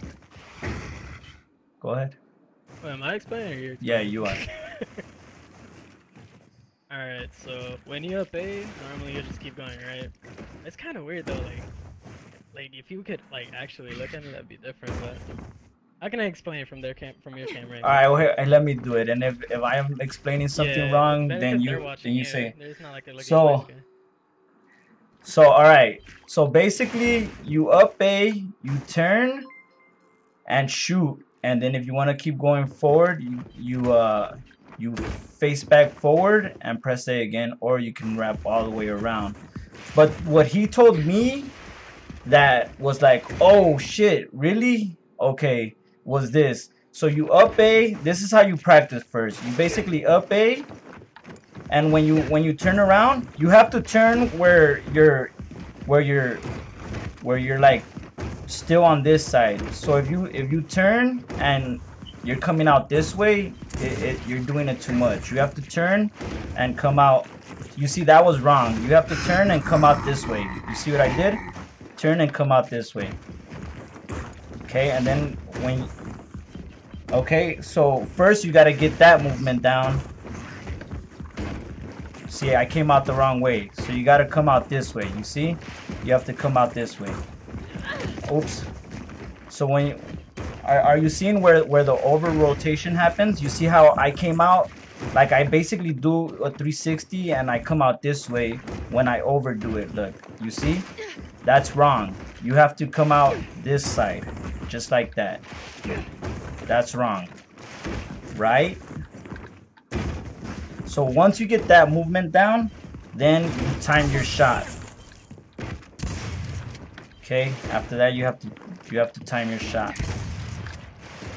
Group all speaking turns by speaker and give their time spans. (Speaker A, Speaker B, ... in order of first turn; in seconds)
Speaker A: 1.8-2.2, 3.8-4.4, 17.8-22.5, 23.2-23.7, 25.2-29.5, 30.5-39.4, 39.9-41.5, 42.2-50.7, 51.7-55.3, 55.9-56.4, 57.2-57.9, 58.5-71.4, 72.0-73.2, 74.7-75.9, 77.1-80.1, 82.3-87.2, 88.2-88.7, 89.5-90.0, 90.6-100.9, 101.4-105.4, 106.7-107.3, 108.3-108.8, 110.9-114.7, 117.2-120.0
Speaker B: 2.8-5.0, 6.9-11.7, 12.5-15.2, 16.0-18.1, 20.5-23.8